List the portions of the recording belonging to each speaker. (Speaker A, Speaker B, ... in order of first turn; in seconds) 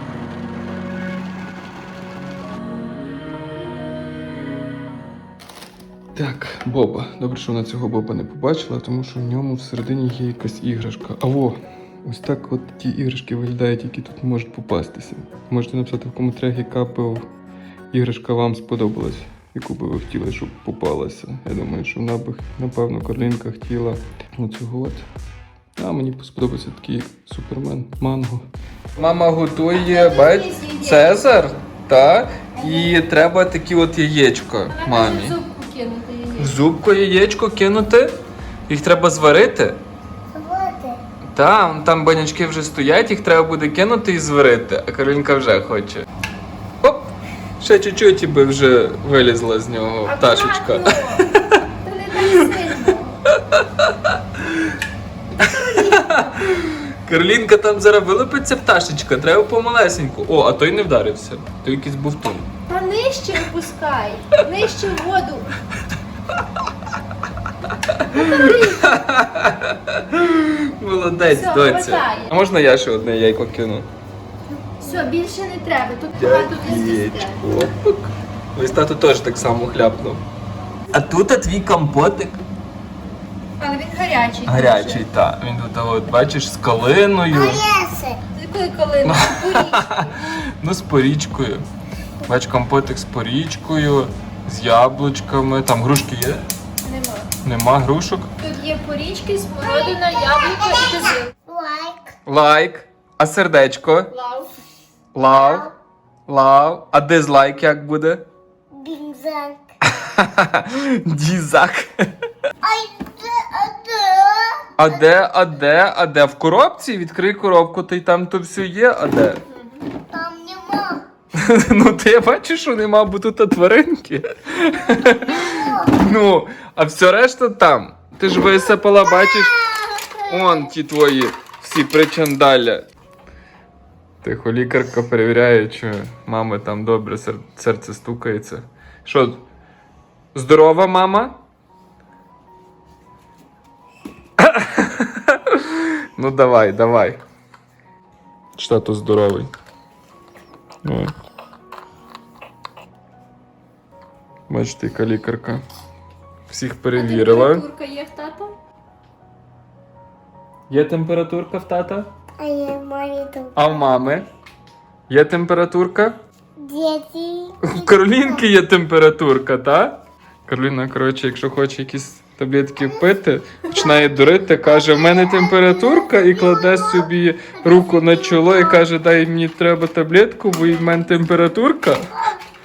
Speaker A: 6.2-17.3, 17.9-25.1, 25.8-35.4, 36.4-39.8, 41.3-46.0, 46.8-51.6, 52.2-52.6, 53.3-54.7, 55.4-62.5, 67.7-73.9, 76.2-80.2, 80.9-82.4, 84.5-87.7, 89.0-91.7, 92.2-96.5, 97.4-98.3, 102.3-104.1, 105.1-105.7, 106.3-108.2, 109.8-112.0, 114.8-119.4, 121.3-129.6, 130.3-132.9, 134.2-139.4, 140.3-141.4, 144.4-147.2, 148.6-149.5, 150.8-151.1, 154.5-155.6, 156.5-157.7, 160.7-162.1, 163.6-164.3, 165.1-166.2, 167.6-182.3
Speaker B: 29.7-31.2, 34.7-36.6, 50.0-51.3, 51.8-53.2, 55.4-56.5, 62.7-65.6, 68.1-68.9, 71.2-72.3, 74.5-77.4, 83.6-85.0, 88.3-90.2, 96.8-97.3, 98.4-101.3, 104.1-104.5, 156.9-158.6
Speaker C: 40.3-41.0, 87.3-88.2, 101.5-102.2, 105.2-105.7, 108.7-109.6, 112.6-114.7, 120.1-121.0, 129.7-130.1, 162.4-163.6, 166.6-168.2